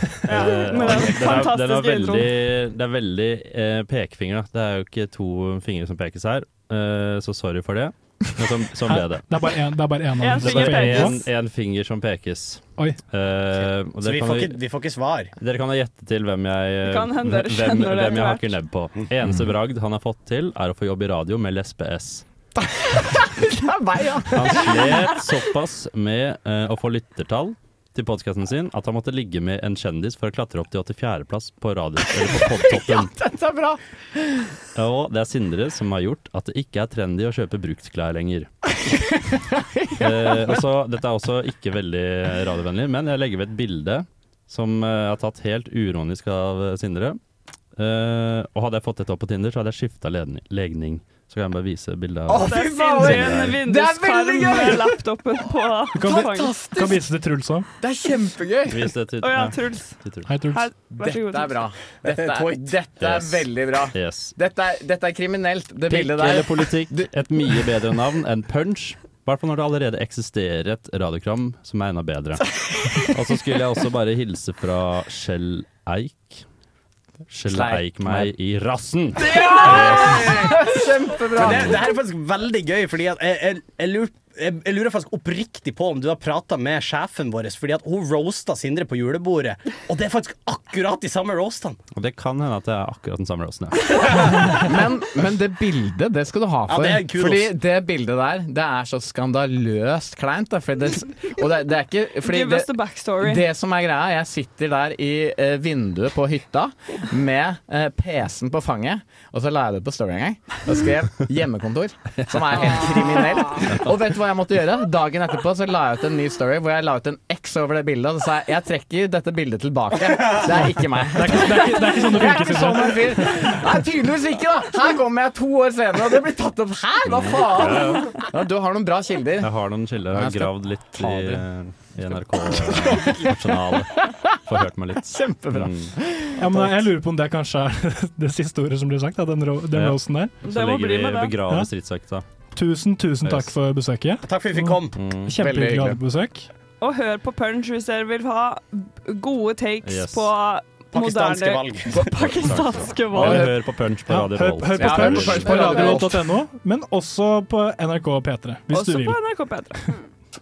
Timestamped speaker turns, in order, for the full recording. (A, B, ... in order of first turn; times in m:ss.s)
0:00.2-0:09.6 A
0:00.2-0:02.3 B
0:08.9-0:11.2 C
0:10.2-0:11.2 B
0:10.4-0:14.6 A
0:13.6-0:15.3 D
0:15.4-0:22.2 A
0:16.9-0:18.5 B
0:22.6-0:25.1 E
0:24.3-0:33.1 A
0:32.1-0:34.5 E
0:34.8-0:38.5 A
0:38.8-0:40.6 E
0:40.0-0:47.2 A
0:47.8-0:53.6 A
0:52.3-0:55.0 E
0:52.4-0:56.6 B
0:56.0-0:57.7 C
0:56.0-0:57.1 E
0:57.8-0:58.9 E
0:58.7-1:00.3 A
0:59.2-1:00.0 B
1:00.3-1:00.7 C
1:00.5-1:01.7 B
1:01.0-1:07.1 E
1:02.0-1:02.8 D
1:03.0-1:04.3 A
1:05.9-1:12.4 A
1:13.0-1:16.4 A
1:17.3-1:20.5 A
1:17.4-1:18.3 E
1:19.2-1:20.1 B
1:19.2-1:21.9 E
1:21.3-1:31.8 D
1:21.4-1:21.8 A
1:32.0-1:34.3 A
1:34.6-2:09.5 E
1:36.7-1:37.5 D
1:42.2-1:43.4 B
2:01.1-2:03.6 C
2:07.1-2:08.1 A
2:09.4-2:15.9 A
2:10.1-2:11.4 E
2:12.3-2:13.4 E
2:15.1-2:16.9 E
2:16.4-2:20.3 C
2:19.7-2:22.2 A
2:20.4-2:21.3 B
2:22.5-2:26.5 C
2:23.2-2:23.5 A
2:24.2-2:25.0 D
2:25.0-2:25.3 A
2:25.4-2:26.0 E
2:26.8-2:33.5 B
2:29.8-2:30.3 A
2:30.9-2:32.1 D
2:32.4-2:35.8 A
2:33.2-2:33.5 E
2:34.1-2:39.2 C
2:34.8-2:36.3 E
2:38.7-2:39.8 B